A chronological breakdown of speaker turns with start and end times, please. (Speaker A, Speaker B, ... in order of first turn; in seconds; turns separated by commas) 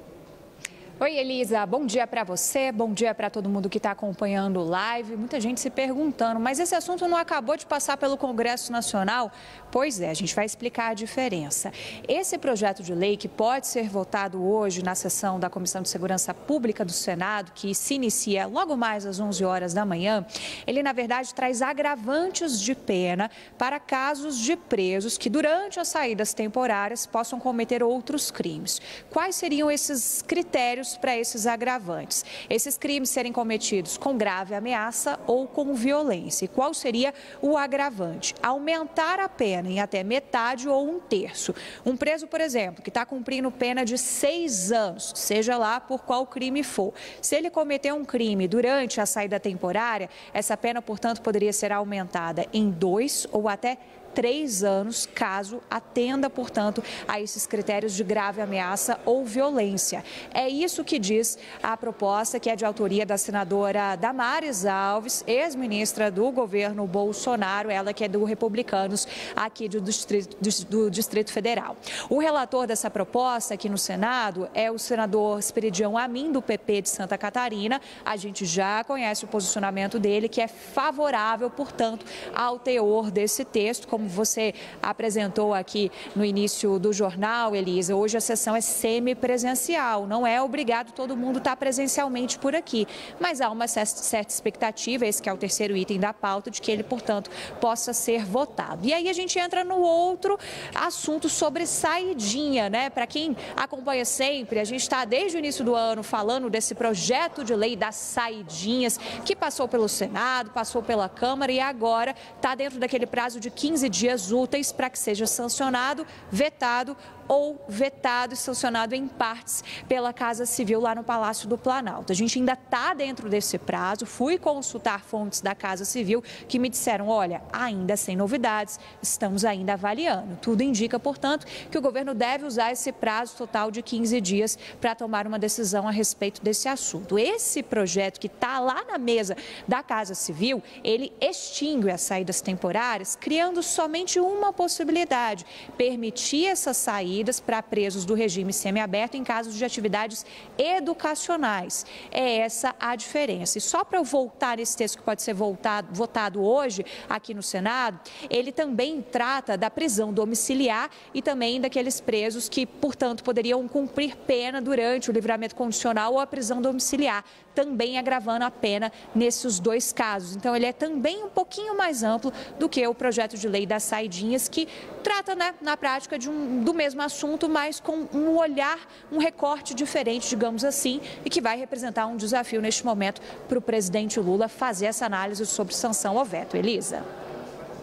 Speaker A: 1.0-187.0